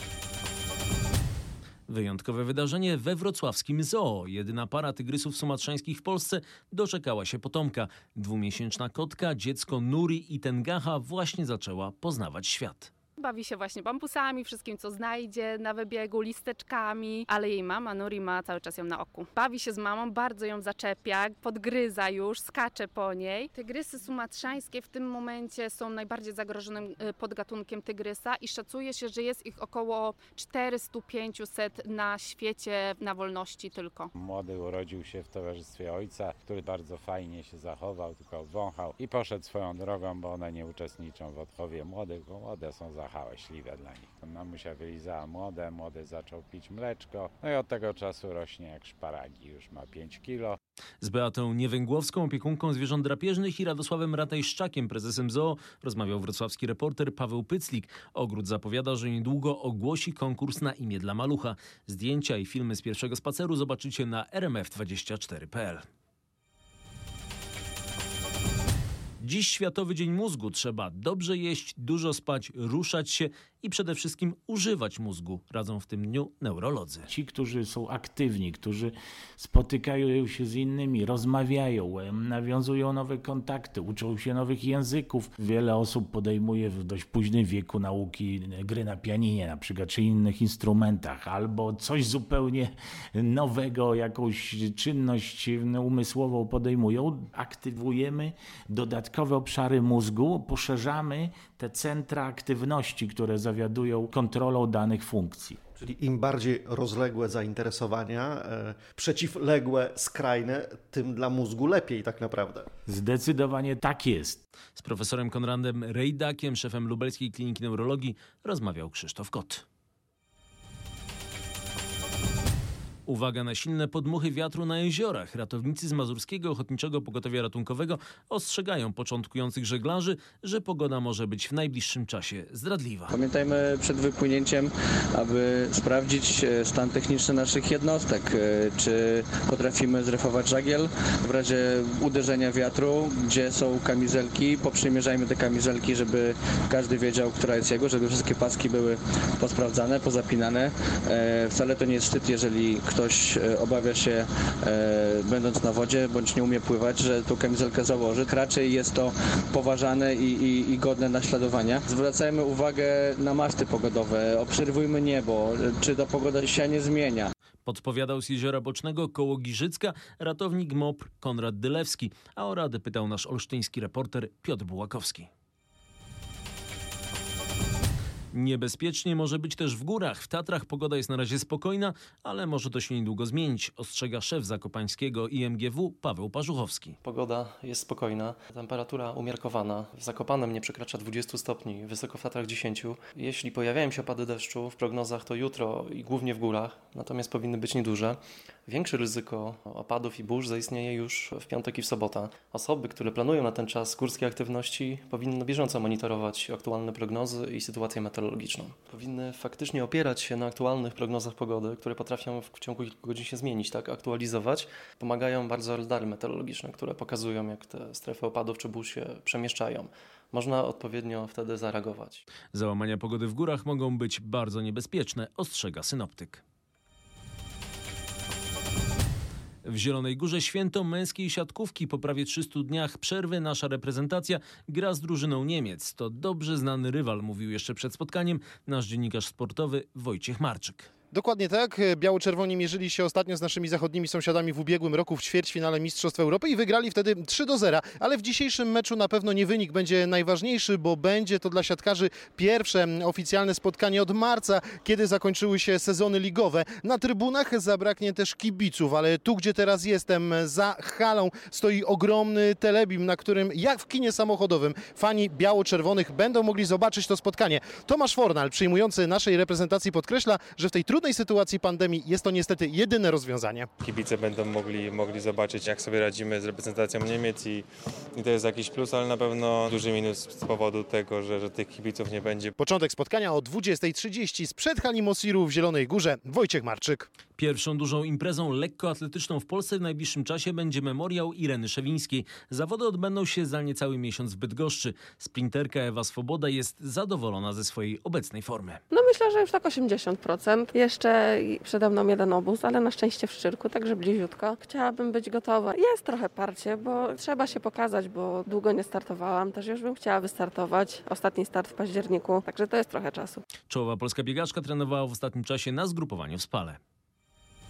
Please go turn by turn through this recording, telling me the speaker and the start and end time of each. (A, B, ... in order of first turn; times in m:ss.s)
0:01.9-0:12.9 A
0:13.2-0:34.1 B
0:34.2-0:50.6 C
0:51.0-1:05.8 A
1:09.2-1:17.1 A
1:17.1-1:45.6 D
1:45.8-1:52.7 E
1:52.9-1:54.4 D
1:54.8-1:59.6 A
2:03.1-2:13.1 A
2:13.1-2:47.3 F
2:47.6-2:55.3 A
2:58.3-3:07.0 A
3:07.0-3:42.2 G
3:42.5-3:46.4 A
3:49.6-4:00.9 A
4:01.1-4:33.7 H
4:33.8-4:42.5 I
4:42.6-4:47.1 H
4:47.4-4:58.8 A
4:58.9-5:13.4 J
5:13.7-5:16.8 A